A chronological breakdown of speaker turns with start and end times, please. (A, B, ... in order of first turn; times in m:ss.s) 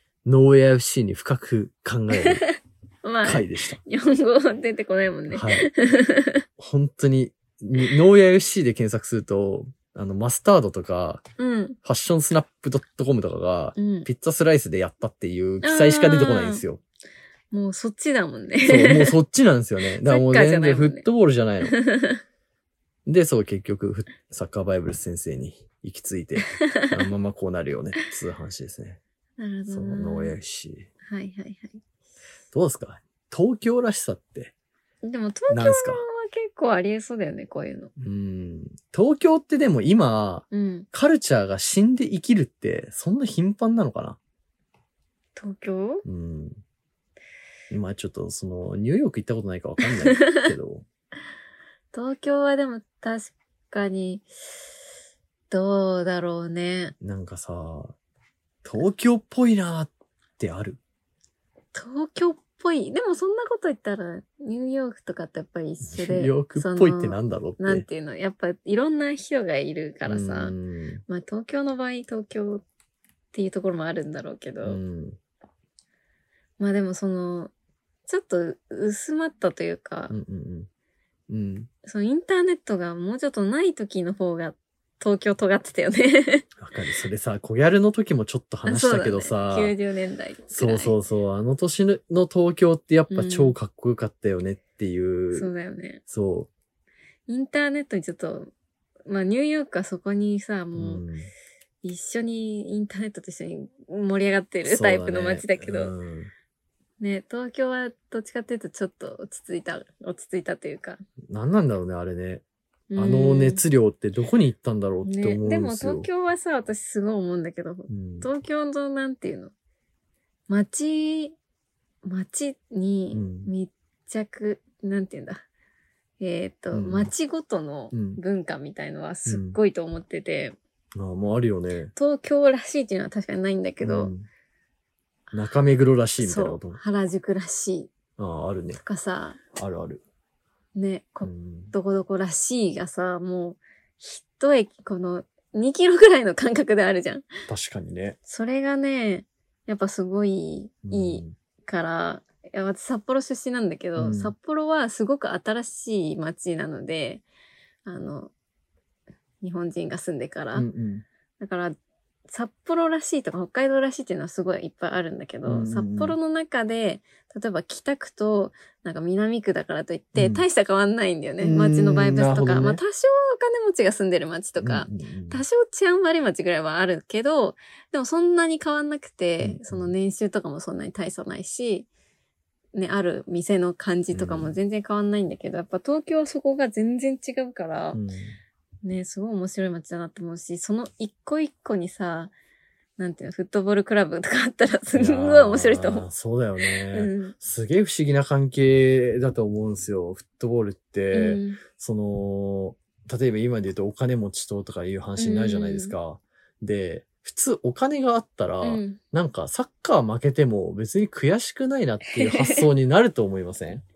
0:00.2-0:02.4 A
0:02.1-0:06.4 B
0:03.2-0:03.8 A
0:05.3-0:05.7 A
0:06.6-0:11.2 A
0:11.4-0:11.8 B
0:11.8-0:16.8 A
0:13.8-0:14.1 B
0:15.6-0:16.6 B
0:17.5-0:19.2 B
0:18.6-0:21.8 A
0:20.0-0:21.1 B
0:21.6-0:22.2 B
0:23.1-0:29.0 A
0:26.5-0:27.0 B
0:29.4-0:30.4 B
0:29.7-0:30.9 A
0:31.0-0:31.8 B
0:32.5-0:34.5 A
0:35.0-0:37.9 B
0:35.5-0:36.0 A
0:38.0-0:44.2 A
0:40.5-0:40.9 B
0:45.4-0:46.0 B
0:46.0-0:46.6 A
0:47.7-0:50.8 A
0:50.0-0:50.5 B
0:51.9-0:54.2 B
0:55.5-0:56.9 B
0:57.0-0:57.9 A
0:58.6-1:00.8 A
1:01.7-1:10.6 B
1:05.9-1:07.9 A
1:10.0-1:11.0 A
1:11.1-1:12.6 B
1:13.3-1:14.8 B
1:14.6-1:15.2 A
1:16.6-1:17.5 B
1:18.1-1:20.1 B
1:20.1-1:20.7 A
1:21.3-1:21.7 A
1:21.8-1:26.5 B
1:26.6-1:29.7 A
1:28.6-1:30.9 B
1:30.5-1:35.5 A
1:33.1-1:33.6 B
1:35.3-1:36.0 B
1:36.1-1:36.5 A
1:37.3-1:38.5 B
1:39.1-1:41.0 B
1:40.7-1:41.3 A
1:41.8-1:45.9 B
1:44.6-1:46.3 A
1:47.0-1:51.0 B
1:51.3-1:52.4 A
1:52.9-1:53.6 B
1:53.0-1:56.1 A
1:55.0-1:59.5 B
1:57.9-1:58.3 A
2:00.5-2:01.4 B
2:02.0-2:05.4 B
2:03.1-2:03.5 A
2:06.2-2:10.6 B
2:06.7-2:07.1 A
2:07.9-2:08.2 A
2:09.2-2:09.6 A
2:10.9-2:11.9 A
2:11.9-2:14.1 B
2:13.8-2:14.2 A
2:15.3-2:16.8 A
2:16.2-2:17.9 B
2:18.2-2:18.8 A
2:18.8-2:19.4 B
2:19.5-2:20.0 A
2:20.7-2:27.3 B
2:21.2-2:21.7 A
2:27.5-2:28.2 A
2:28.2-2:37.2 B
2:30.8-2:31.4 A
2:34.0-2:34.3 A
2:37.9-2:38.3 B
2:39.4-2:40.7 B
2:40.5-2:41.0 A
2:41.4-2:41.8 B
2:42.3-3:01.9 B
2:45.5-2:46.2 A
2:50.2-2:50.4 A
2:51.4-2:52.8 A
2:54.6-2:55.4 A
2:59.4-2:59.9 A
3:02.7-3:08.0 B
3:04.1-3:04.6 A
3:07.9-3:08.4 A
3:08.8-3:12.3 B
3:13.0-3:16.1 B
3:14.9-3:33.8 A
3:16.6-3:17.4 B
3:21.1-3:21.6 B
3:25.2-3:25.9 B
3:28.6-3:29.0 B
3:32.1-3:32.7 B